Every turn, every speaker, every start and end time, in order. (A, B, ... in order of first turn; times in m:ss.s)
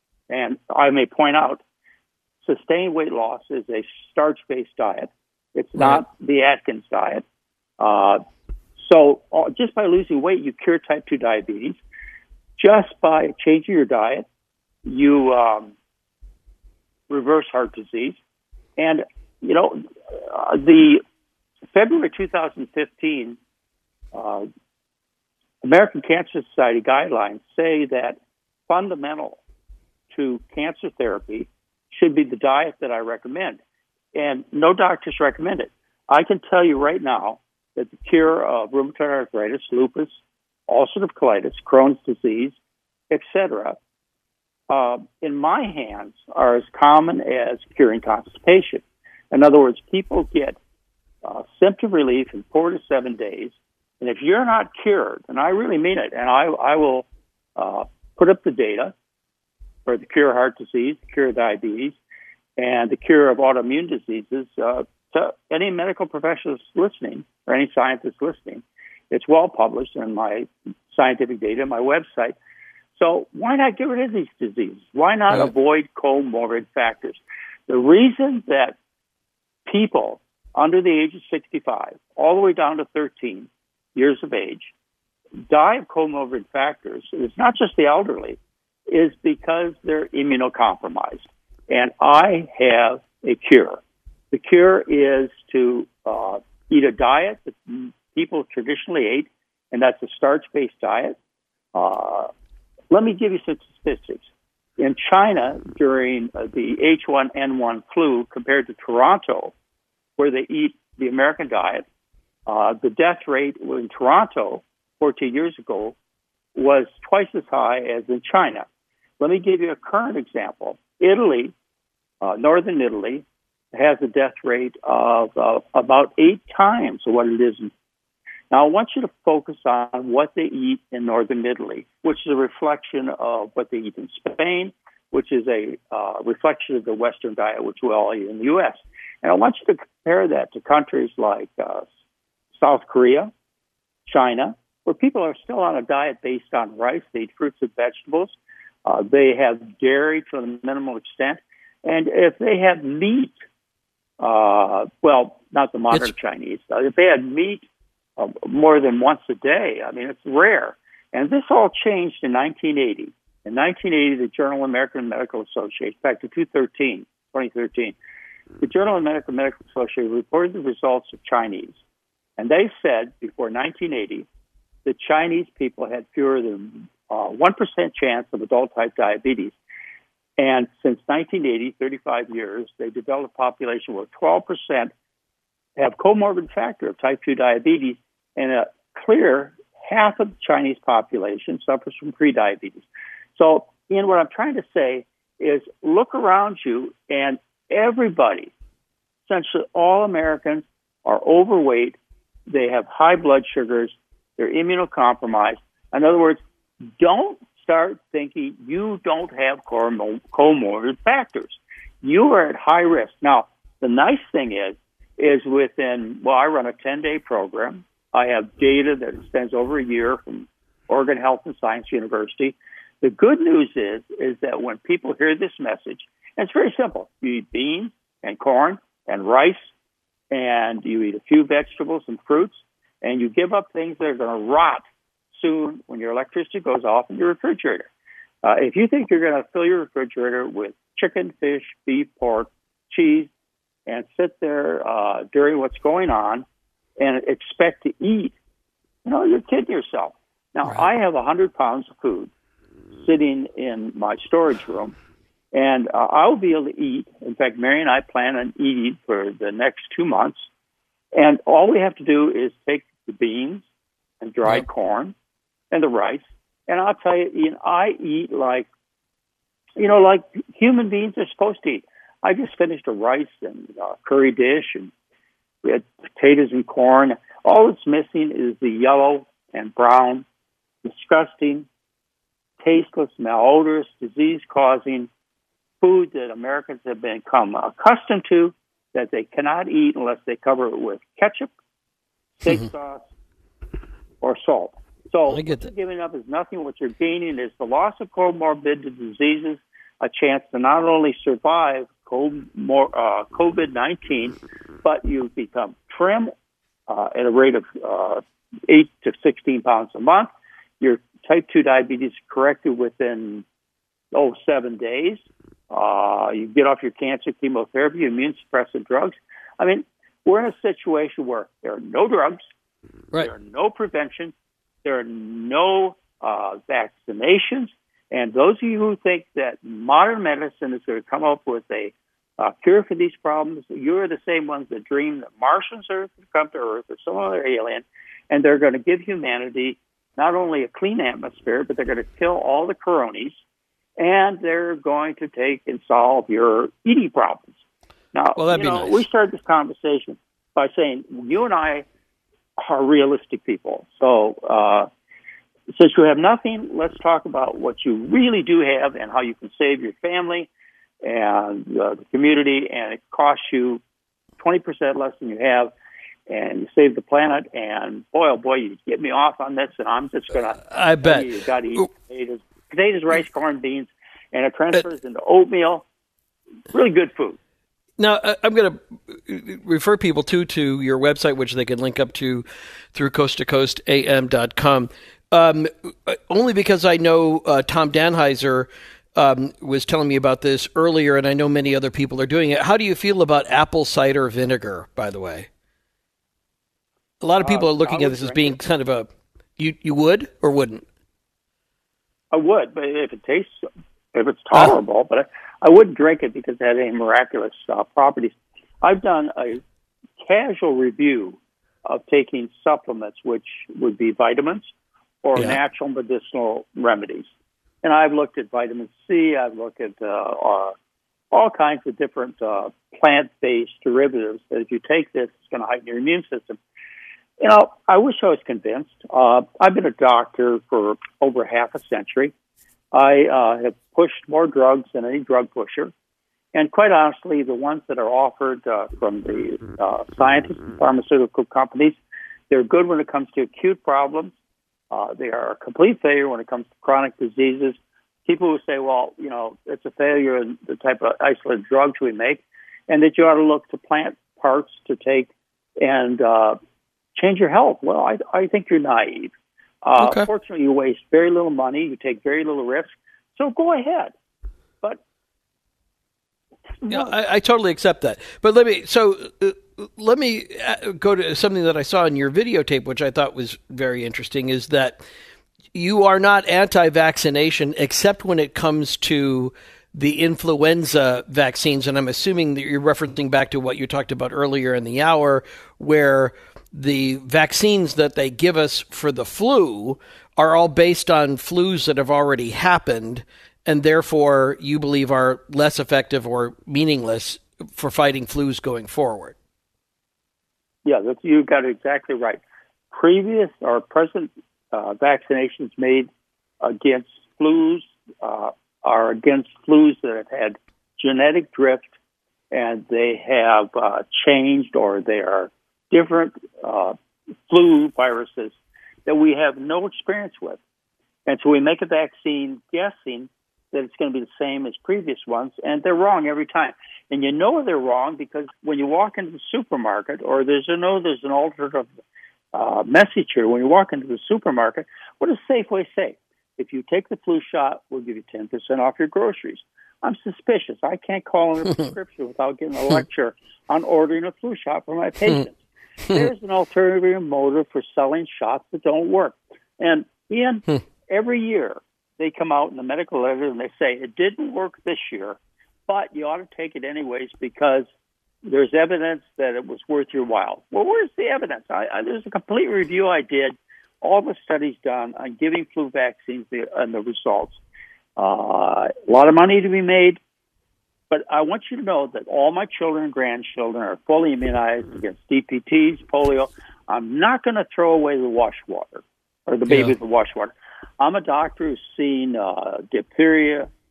0:00.3-0:01.6 A
0:02.4-0:07.2 A
0:05.8-0:06.0 B
0:07.8-0:08.2 A
0:08.8-0:11.8 A
0:12.6-0:14.2 A
0:14.8-0:15.7 A
0:17.1-0:18.2 A
0:18.8-0:21.0 A
0:21.7-0:23.4 A
0:24.1-0:24.5 A
0:25.6-0:29.4 A
0:30.1-0:33.6 A
0:34.1-0:42.6 A
0:43.1-0:43.8 A
0:44.7-0:50.6 A
0:51.2-0:58.9 A
0:59.8-1:02.0 A
1:02.6-1:12.4 A
1:12.9-1:18.8 A
1:19.6-1:24.7 A
1:25.5-1:41.2 A
1:41.7-1:42.3 A
1:42.9-1:49.5 A
1:50.2-1:51.8 A
1:52.5-1:56.0 A
1:56.5-1:58.6 A
1:59.2-2:01.5 A
2:02.2-2:07.7 A
2:08.5-2:21.9 A
2:22.5-2:23.3 A
2:24.0-2:33.4 A
2:34.2-2:37.6 A
2:35.9-2:36.1 B
2:38.2-2:48.0 A
2:48.6-2:51.8 A
2:52.4-2:54.3 A
2:54.8-2:59.6 A
3:00.4-3:04.9 A
3:05.8-3:18.5 A
3:19.2-3:26.4 A
3:27.0-3:49.7 A
3:50.3-3:57.9 A
3:58.4-4:03.3 A
4:03.9-4:06.4 A
4:07.0-4:08.4 A
4:09.0-4:12.3 A
4:10.6-4:10.9 B
4:13.0-4:14.9 A
4:15.5-4:20.4 A
4:21.1-4:23.6 A
4:24.2-4:25.1 A
4:25.7-4:28.7 A
4:29.8-4:34.9 A
4:35.6-4:40.2 A
4:40.8-4:41.6 A
4:42.6-4:45.1 A
4:45.8-4:51.5 A
4:52.4-4:53.1 A
4:54.2-5:06.3 A
4:55.3-4:55.7 B
5:06.9-5:13.4 A
5:14.1-5:22.4 A
5:23.2-5:43.4 A
5:44.0-5:47.6 A
5:48.1-5:51.8 A
5:48.4-5:49.1 B
5:52.6-5:54.9 A
5:55.7-6:00.5 A
6:01.0-6:03.8 A
6:04.4-6:05.7 A
6:06.3-6:15.8 A
6:10.6-6:11.9 B
6:16.7-6:17.4 A
6:18.0-6:35.5 B
6:37.2-6:40.8 B
6:37.4-6:38.6 A
6:42.3-6:49.6 A
6:44.5-6:44.8 B
6:50.2-6:54.7 A
6:55.2-6:57.3 A
6:55.4-6:55.6 B
6:57.8-7:00.7 A
7:01.3-7:06.6 A
7:07.4-7:12.3 A
7:12.9-7:15.9 A
7:16.5-7:24.3 A
7:24.9-7:36.6 A
7:37.2-7:44.1 A
7:40.0-7:40.3 B
7:46.8-7:47.1 A
7:46.9-7:55.0 B
7:55.7-8:19.3 B
8:20.8-8:26.1 A
8:26.6-8:31.9 A
8:32.5-8:36.9 A
8:37.5-8:40.6 A
8:41.2-8:51.9 A
8:52.5-9:17.9 A
9:18.4-9:27.6 A
9:28.2-9:30.2 A
9:31.1-9:43.7 A
9:39.7-9:40.0 B